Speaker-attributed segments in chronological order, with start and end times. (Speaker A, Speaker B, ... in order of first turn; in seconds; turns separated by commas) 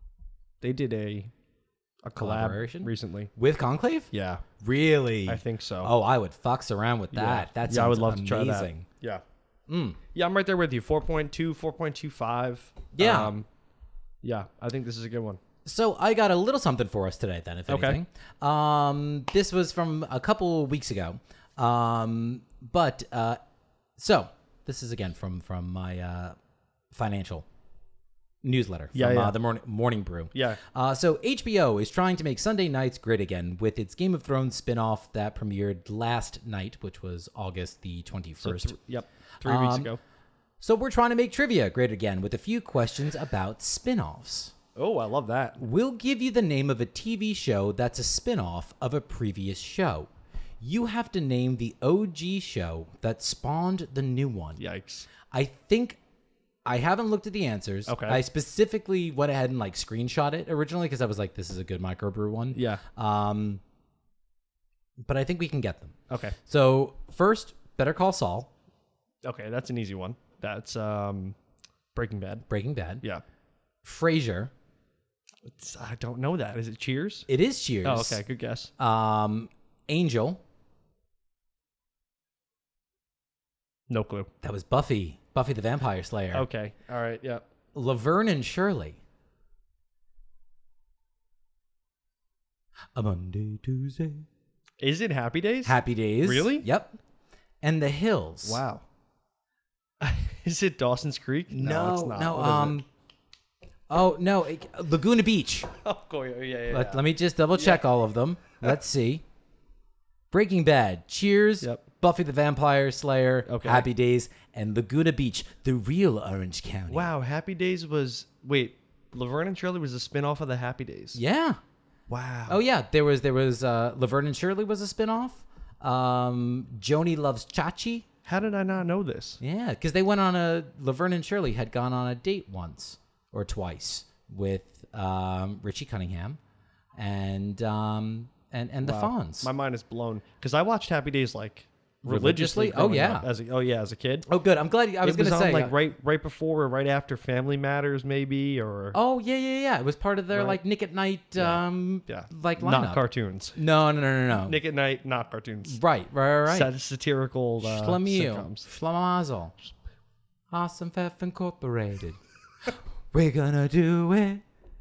Speaker A: 0.6-1.3, Speaker A: 2.0-3.3, Speaker B: 2.2-4.1, Speaker A: 4.1-4.4, Speaker B: 4.6-8.8, Speaker A: 5.2-5.9, Speaker A: 7.1-9.2, Speaker B: 9.7-10.0, Speaker A: 10.1-13.5, Speaker B: 12.9-13.3, Speaker A: 14.2-15.4, Speaker B: 15.6-23.4, Speaker A: 17.7-18.0, Speaker B: 24.0-26.3, Speaker B: 26.9-27.4, Speaker B: 28.4-38.7, Speaker A: 28.9-29.4, Speaker A: 30.3-30.6, Speaker A: 38.4-40.0, Speaker B: 39.4-39.9, Speaker B: 40.6-44.5, Speaker A: 44.8-45.6, Speaker B: 45.6-50.1, Speaker B: 50.6-54.6, Speaker A: 54.6-55.1, Speaker B: 55.3-56.0, Speaker B: 56.6-63.6, Speaker A: 57.9-58.2, Speaker A: 62.5-62.8, Speaker B: 65.0-65.9, Speaker A: 66.1-66.3, Speaker B: 66.5-68.5, Speaker A: 69.2-71.4, Speaker A: 71.9-72.5, Speaker B: 72.5-73.0, Speaker B: 73.8-74.5, Speaker A: 75.5-77.3, Speaker B: 77.3-78.2, Speaker A: 77.8-78.7, Speaker B: 78.8-80.4, Speaker A: 83.9-84.3, Speaker B: 84.4-86.5, Speaker A: 86.3-87.4, Speaker B: 87.7-89.0, Speaker B: 92.9-94.2, Speaker A: 94.8-96.7, Speaker B: 95.6-96.9, Speaker B: 97.6-98.6, Speaker A: 98.4-98.8, Speaker A: 100.0-102.8, Speaker B: 101.5-102.8, Speaker B: 103.9-105.7, Speaker A: 105.8-107.8, Speaker B: 106.7-109.2, Speaker B: 110.3-117.1, Speaker A: 113.5-113.9, Speaker A: 116.9-121.2, Speaker B: 121.1-121.6, Speaker A: 122.1-122.6, Speaker B: 122.5-128.0, Speaker A: 128.2-129.4, Speaker B: 129.4-136.4, Speaker B: 137.0-139.5, Speaker A: 138.8-144.3, Speaker B: 142.0-143.3, Speaker B: 144.3-145.7, Speaker A: 145.0-148.9, Speaker B: 148.9-153.0, Speaker A: 150.3-150.6, Speaker A: 151.4-153.6, Speaker B: 153.6-154.6, Speaker A: 154.4-155.8, Speaker B: 155.7-156.7, Speaker A: 156.4-158.7, Speaker B: 157.6-159.5, Speaker B: 160.5-164.4